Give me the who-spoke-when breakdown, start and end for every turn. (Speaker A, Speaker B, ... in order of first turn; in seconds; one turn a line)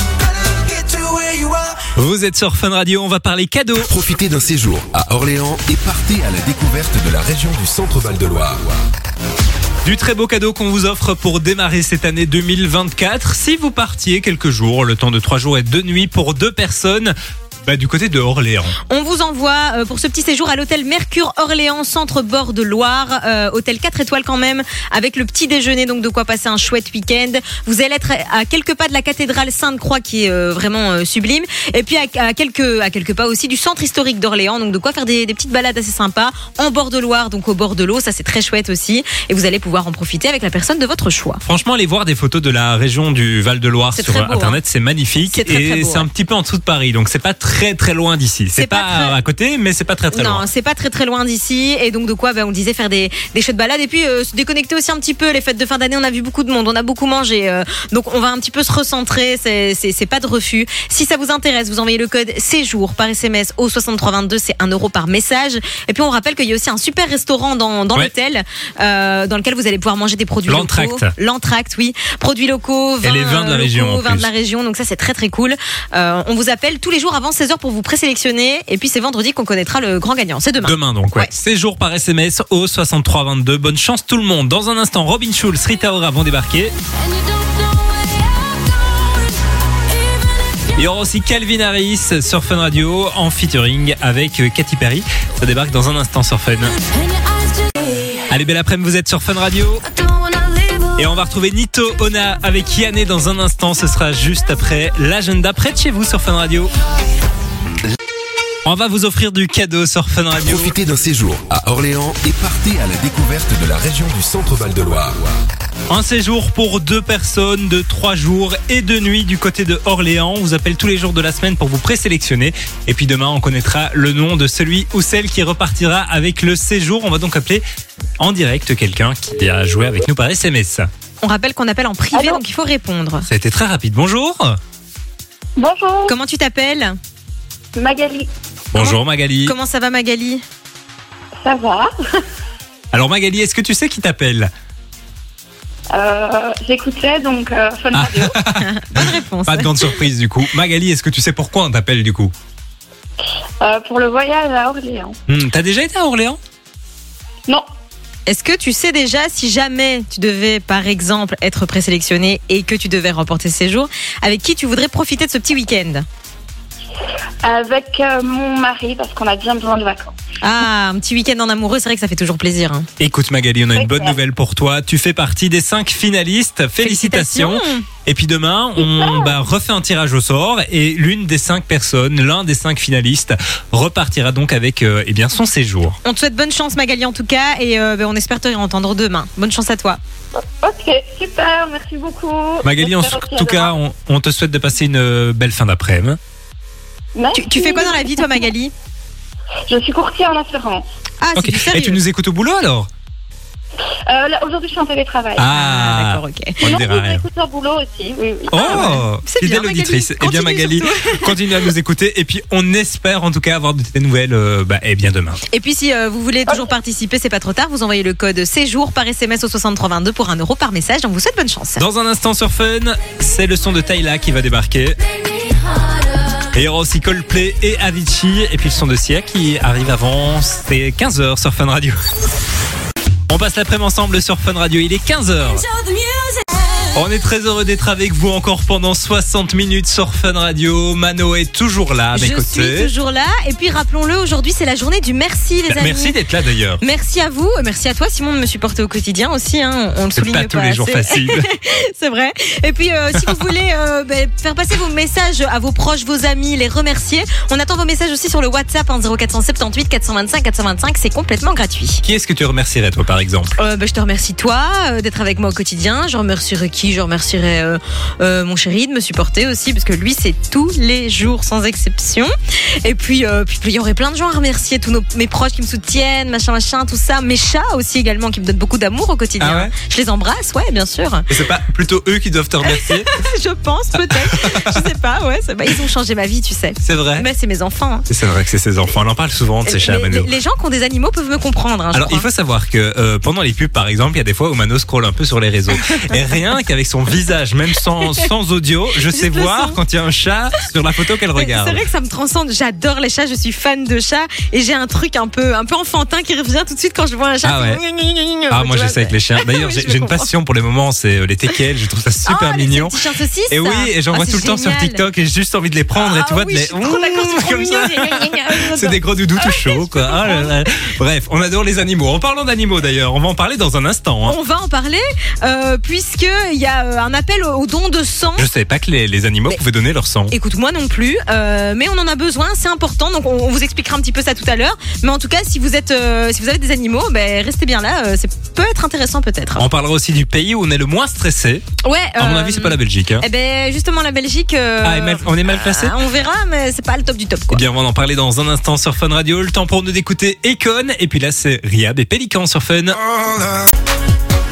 Speaker A: 0.5-1.7
Speaker B: 1.9-3.9
Speaker A: 3.8-8.8
Speaker B: 9.8-18.8
Speaker C: 18.9-41.4
Speaker B: 41.4-50.4
Speaker C: 44.0-44.6
Speaker C: 45.3-46.1
Speaker C: 48.6-49.2
Speaker C: 50.1-81.3
Speaker B: 70.5-71.1
Speaker B: 73.0-74.3
Speaker B: 80.6-86.7
Speaker D: 86.9-89.4
Speaker D: 89.9-90.6
Speaker B: 90.8-96.8
Speaker D: 96.8-98.2
Speaker B: 98.3-99.8
Speaker D: 99.8-101.2
Speaker B: 101.0-106.7
Speaker B: 108.7-110.7
Speaker A: 110.4-115.3
Speaker B: 115.9-127.6
Speaker B: 128.2-130.9
Speaker C: 131.2-133.3
Speaker E: 132.1-132.4
Speaker B: 133.3-134.6
Speaker E: 135.6-136.1
Speaker C: 136.1-137.0
Speaker E: 137.8-138.3
Speaker B: 138.7-139.6
Speaker C: 138.8-140.4
Speaker E: 141.4-142.2
Speaker B: 142.9-144.5
Speaker E: 145.9-148.4
Speaker B: 147.9-152.3
Speaker C: 148.6-150.0
Speaker E: 153.6-155.2
Speaker B: 155.3-156.4
Speaker C: 158.3-166.1
Speaker E: 167.4-170.2
Speaker C: 170.4-172.9
Speaker B: 173.0-186.0
Speaker E: 173.8-174.2
Speaker C: 176.8-177.9
Speaker E: 178.8-179.3
Speaker C: 186.0-190.0
Speaker E: 190.4-193.8
Speaker B: 192.6-196.2
Speaker E: 197.2-198.5
Speaker C: 197.3-198.7
Speaker E: 199.7-200.8
Speaker C: 201.2-202.0
Speaker B: 201.4-202.9
Speaker E: 204.1-205.5
Speaker B: 205.4-207.2
Speaker C: 205.5-206.7
Speaker E: 206.6-208.9
Speaker B: 208.5-215.4
Speaker C: 208.5-211.7
Speaker C: 215.5-221.8
Speaker B: 221.8-225.0
Speaker D: 225.8-226.4
Speaker B: 226.5-232.0
Speaker B: 233.3-235.6
Speaker D: 235.4-237.1
Speaker B: 236.9-242.9
Speaker C: 242.1-246.2
Speaker B: 245.7-246.8
Speaker C: 246.8-262.0
Speaker B: 250.2-251.5
Speaker B: 262.0-263.6
Speaker C: 263.6-281.3
Speaker B: 279.4-279.7
Speaker B: 281.3-283.1
Speaker C: 282.6-288.1
Speaker B: 284.1-284.8
Speaker B: 286.8-287.3
Speaker B: 288.1-290.3
Speaker C: 289.7-292.3
Speaker B: 291.9-301.8
Speaker C: 295.9-296.2
Speaker C: 298.0-298.3
Speaker C: 299.1-299.8
Speaker C: 301.4-310.3
Speaker B: 307.4-307.8
Speaker B: 308.5-324.4
Speaker C: 312.3-315.0
Speaker C: 316.0-320.6
Speaker C: 324.2-328.5
Speaker B: 328.4-330.3
Speaker C: 330.3-339.6
Speaker B: 339.6-341.6
Speaker C: 341.8-347.6
Speaker B: 342.2-343.2
Speaker B: 344.8-346.0
Speaker B: 347.5-353.0
Speaker A: 353.1-353.6